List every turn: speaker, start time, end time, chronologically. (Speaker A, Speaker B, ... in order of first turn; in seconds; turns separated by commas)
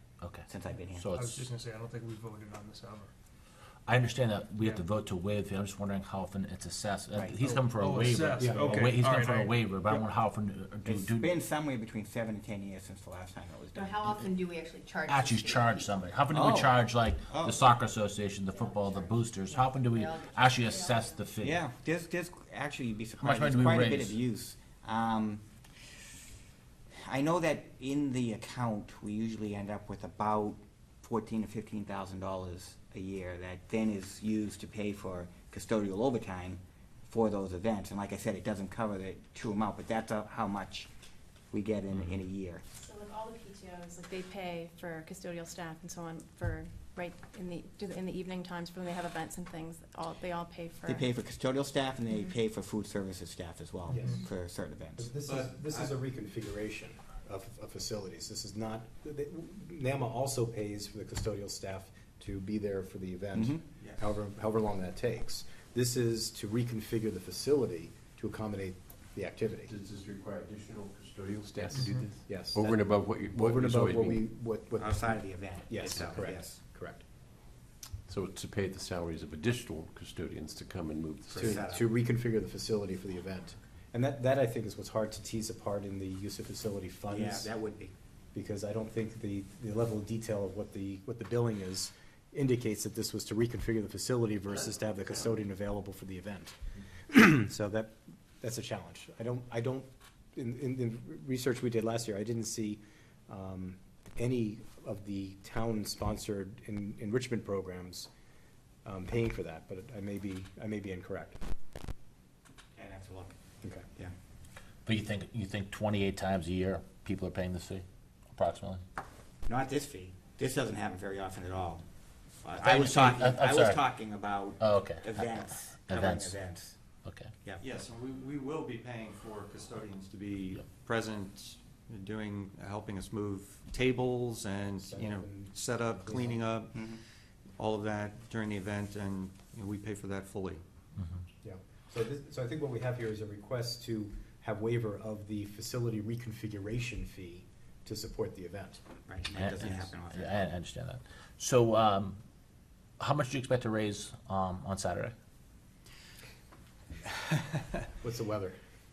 Speaker A: 0.2-1.5, Speaker B: 0.5-1.1, Speaker C: 1.1-3.1, Speaker A: 3.9-11.3, Speaker B: 7.2-7.5, Speaker C: 7.4-10.0, Speaker D: 8.4-9.0, Speaker B: 10.8-14.3, Speaker E: 13.8-15.9, Speaker A: 15.1-21.6, Speaker B: 16.3-16.8, Speaker B: 17.3-17.6, Speaker E: 18.6-21.0, Speaker B: 21.4-25.4, Speaker A: 23.2-24.2, Speaker B: 27.0-40.9, Speaker B: 41.5-42.6, Speaker F: 42.8-51.1, Speaker B: 50.8-55.1, Speaker D: 53.9-54.3, Speaker D: 55.0-69.7, Speaker G: 55.2-55.9, Speaker B: 63.4-63.6, Speaker H: 69.7-74.2, Speaker D: 71.7-77.0, Speaker C: 71.8-72.1, Speaker B: 74.8-76.6, Speaker H: 78.1-81.6, Speaker D: 81.3-87.5, Speaker B: 81.3-81.9, Speaker B: 87.1-87.9, Speaker D: 88.3-108.1, Speaker D: 108.8-111.4, Speaker B: 112.8-113.4, Speaker A: 114.9-118.8, Speaker B: 119.5-121.8, Speaker B: 122.4-126.8, Speaker A: 122.6-123.8, Speaker A: 124.6-126.4, Speaker A: 127.0-127.3, Speaker G: 127.6-136.7, Speaker D: 134.9-136.4, Speaker B: 136.7-137.0, Speaker G: 137.6-140.6, Speaker A: 141.0-141.2, Speaker D: 141.4-148.8, Speaker B: 149.1-150.4, Speaker A: 149.4-152.2, Speaker A: 153.0-155.2, Speaker D: 158.0-158.6